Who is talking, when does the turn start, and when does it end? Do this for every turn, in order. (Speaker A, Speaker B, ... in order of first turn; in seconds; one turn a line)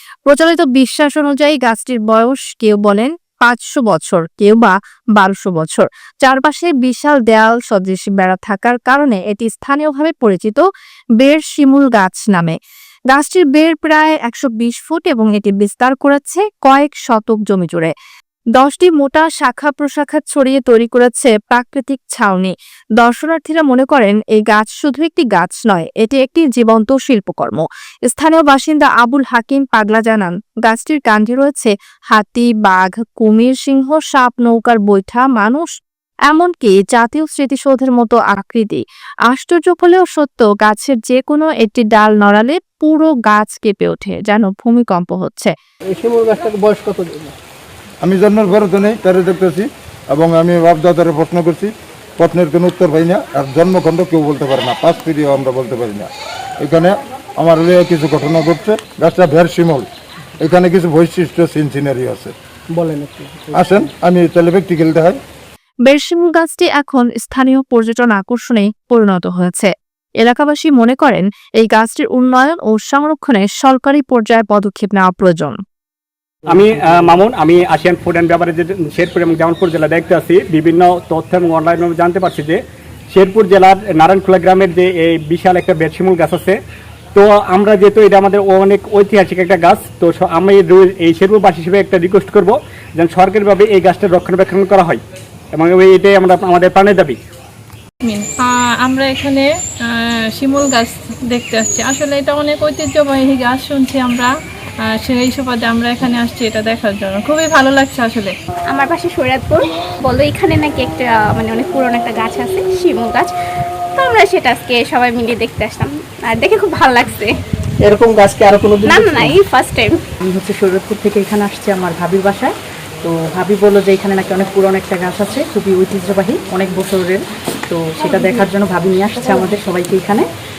Speaker A: 0.3-10.6
Speaker A: 11.2-12.6
Speaker A: 13.1-17.9
Speaker A: 18.6-35.7
Speaker A: 36.3-45.5
Speaker B: 45.9-47.4
Speaker C: 48.0-56.1
Speaker C: 56.6-59.9
Speaker C: 60.4-62.3
Speaker B: 62.7-63.8
Speaker C: 63.5-65.2
Speaker A: 65.8-75.6
Speaker D: 76.5-82.6
Speaker D: 83.1-86.6
Speaker D: 87.2-95.0
Speaker D: 95.5-97.2
Speaker E: 98.0-104.3
Speaker E: 104.9-108.3
Speaker F: 108.7-113.3
Speaker F: 114.0-117.4
Speaker B: 117.8-119.4
Speaker F: 118.8-120.0
Speaker G: 120.3-122.5
Speaker G: 123.0-130.2